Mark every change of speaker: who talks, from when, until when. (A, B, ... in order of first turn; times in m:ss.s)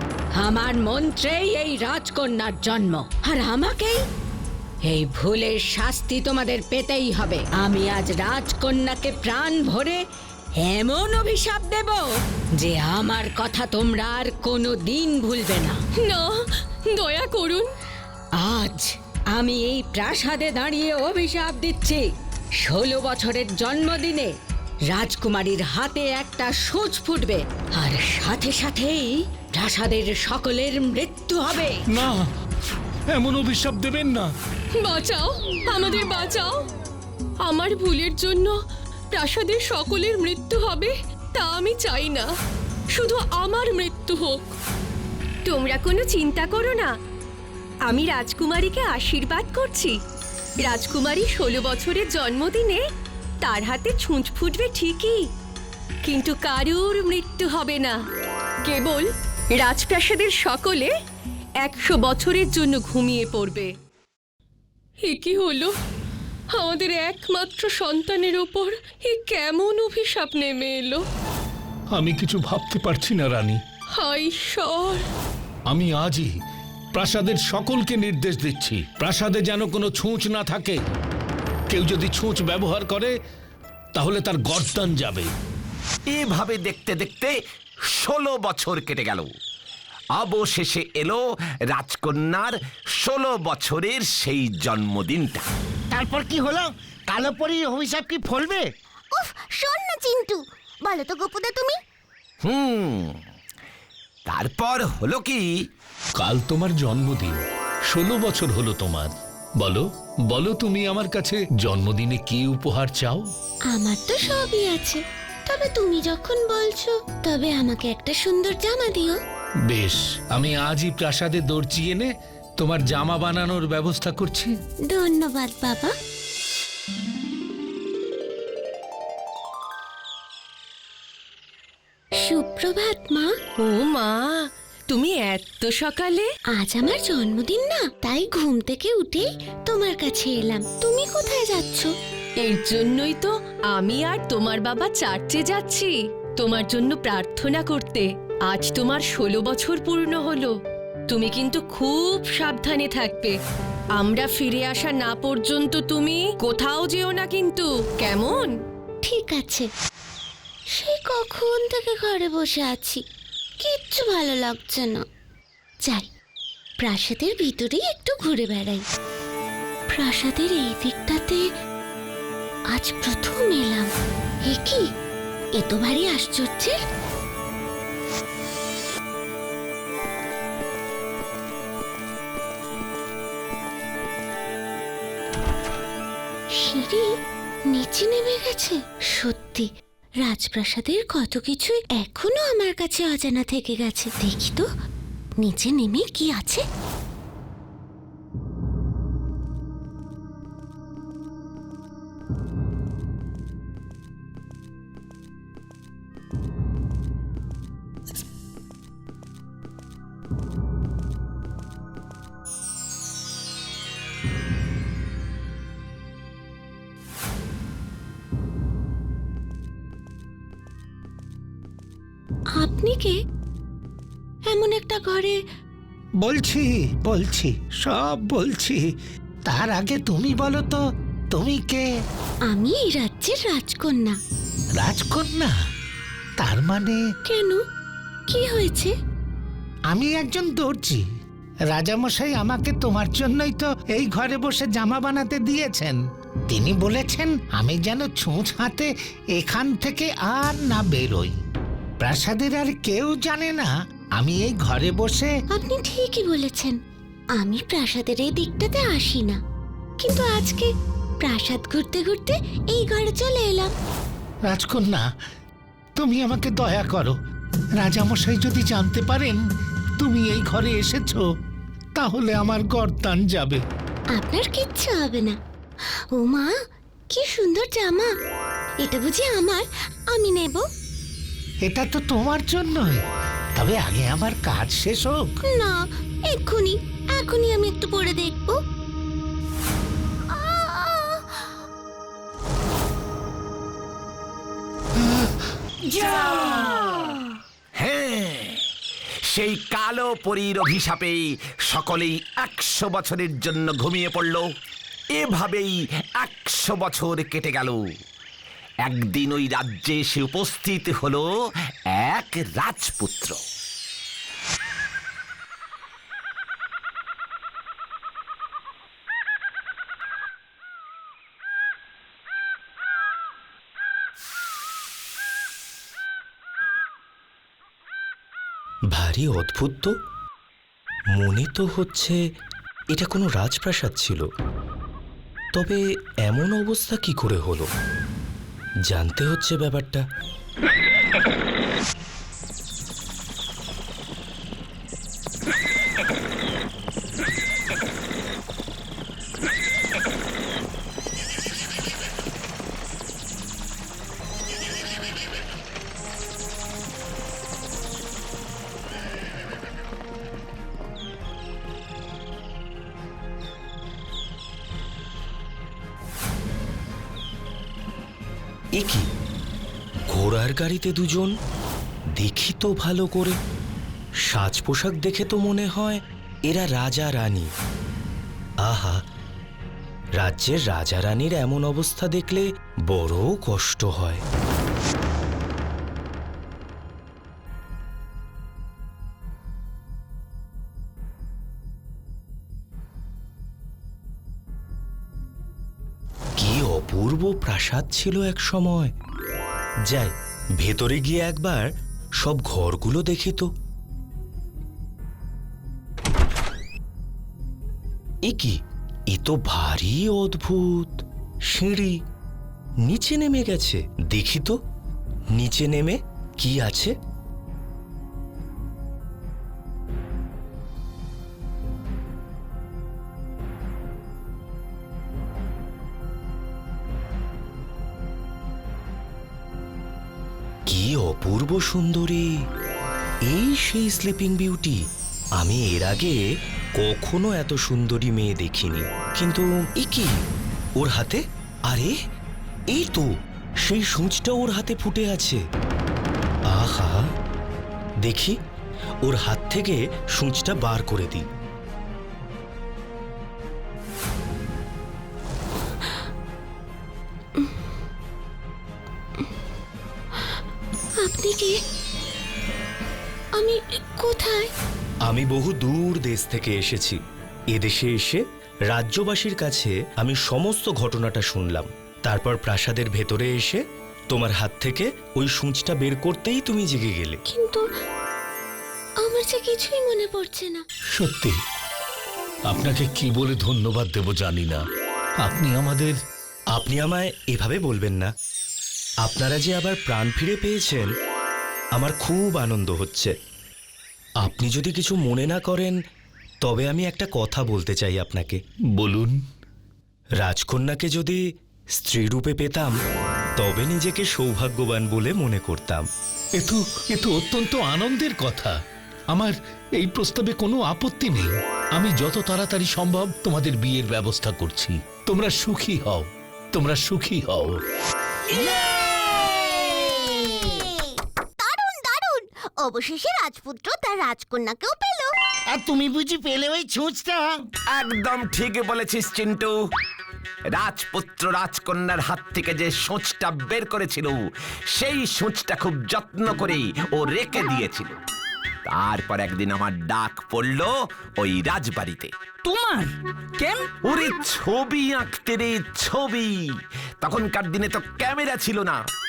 0:00.3-0:04.0 A
0:04.8-0:10.0 A
0:10.6-0:15.8 A
0:16.0-0:17.7 B
0:18.4-0:22.1 A
0:22.6-0:24.3 A
0:24.9-0:31.7 A
0:31.9-0:32.3 C
0:33.1-0:34.3 C
0:34.8-0:36.6 B
0:37.4-0:38.5 B
0:39.1-0:42.3 B
0:42.9-0:44.6 B
0:45.4-0:46.9 B
0:47.9-0:49.9 B
0:50.6-0:52.8 B
0:53.4-0:55.2 B
0:56.0-0:58.0 B
0:58.6-1:00.9 B
1:01.6-1:03.7 B
1:05.0-1:05.7 B
1:06.5-1:11.0 B
1:11.9-1:13.6 C
1:14.0-1:15.0 B
1:15.7-1:16.3 C
1:16.9-1:20.8 C
1:21.7-1:23.1 C
1:23.9-1:25.3 C
1:26.1-1:27.3 D
1:27.9-1:29.3 D
1:30.2-1:35.4 D
1:35.9-1:38.7 E
1:39.2-1:41.8 F
1:42.4-1:43.2 D
1:44.3-1:45.5 D
1:46.2-1:53.3 C
1:53.7-1:59.2 G
1:59.7-2:04.6 C
2:04.9-2:05.9 G
2:12.2-2:13.3 G
2:13.6-2:16.3 B
2:16.5-2:21.9 G
2:22.4-2:30.5 B
2:31.1-2:33.4 B
2:34.0-2:38.5 B
2:39.0-2:39.7 G
2:40.7-2:43.0 G
2:43.6-2:45.0 G
2:46.8-2:48.8 G
2:49.9-2:51.4 G
2:52.7-2:53.9 G
2:54.4-2:54.8 G
2:55.5-2:56.8 G
3:06.5-3:07.1 G
3:07.7-3:09.7 G
3:10.2-3:14.7 G
3:15.4-3:16.6 G
3:42.6-3:43.1 G
3:44.5-3:45.4 G
3:46.2-3:48.8 H
3:49.5-3:50.8 H
3:51.3-3:51.8 H
3:52.5-3:54.2 G
3:54.8-3:55.5 H
3:56.4-3:57.0 H
3:57.3-3:57.6 G
3:58.3-3:58.9 G
3:59.9-4:01.0 H
4:01.7-4:06.0 H
4:06.5-4:11.3 H
4:12.0-4:15.3 H
4:15.5-4:16.8 G
4:17.4-4:19.4 G
4:20.0-4:20.7 G
4:21.2-4:23.7 G
4:24.5-4:25.0 H
4:26.0-4:27.1 H
4:27.8-4:29.4 H
4:30.0-4:31.2 H
4:32.0-4:33.6 H
4:34.1-4:35.4 G
4:36.1-4:36.5 G
4:37.1-4:38.1 G
4:38.8-4:40.6 G
4:41.6-4:43.0 H
4:43.6-4:45.2 H
4:45.5-4:48.6 G
4:50.3-4:51.2 G
4:55.9-4:56.8 I
4:57.8-4:58.6 D
4:59.3-5:04.5 D
5:05.2-5:07.8 D
5:08.8-5:11.3 D
5:12.0-5:13.4 D
5:28.9-5:29.9 J
5:31.1-5:32.2 J
5:32.9-5:34.2 J
5:35.5-5:37.7 J
5:38.9-5:40.0 J
6:08.7-6:09.0 J
6:10.1-6:11.3 J
6:12.2-6:13.4 J
6:14.3-6:17.5 J
6:18.6-6:19.0 J
6:20.2-6:24.2 J
6:36.4-6:38.9 J
6:39.9-6:41.7 J
6:42.2-6:43.5 J
6:48.2-6:48.6 J
6:49.1-6:51.9 J
6:52.8-6:54.6 J
6:55.3-6:56.9 J
7:10.7-7:12.3 J
7:13.3-7:14.8 J
7:15.4-7:16.2 J
7:16.8-7:20.1 J
7:20.8-7:21.9 J
7:22.7-7:23.1 J
7:23.6-7:25.4 J
7:26.5-7:27.0 J
7:28.0-7:28.3 J
7:29.0-7:31.2 J
7:41.0-7:41.6 G
7:43.4-7:44.5 G
7:45.1-7:47.0 J
7:47.5-7:57.2 J
7:57.3-7:57.6 G
7:59.0-8:00.6 G
8:00.9-8:01.4 C
8:02.5-8:04.6 C
8:05.2-8:06.0 C
8:06.5-8:08.1 J
8:09.0-8:10.9 J
8:11.8-8:13.1 J
8:14.2-8:15.8 J
8:16.4-8:18.4 J
8:18.7-8:19.2 C
8:20.2-8:21.2 J
8:21.8-8:22.7 J
8:23.4-8:25.9 J
8:26.4-8:28.5 C
8:29.1-8:37.6 C
8:38.5-8:39.4 E
8:39.9-8:40.5 E
8:41.4-8:45.1 F
8:45.5-8:47.3 E
8:47.7-8:49.6 D
8:50.5-8:54.2 D
8:54.7-8:58.0 D
8:58.6-9:02.1 D
9:02.4-9:03.7 I
9:03.8-9:06.4 D
9:07.0-9:08.8 D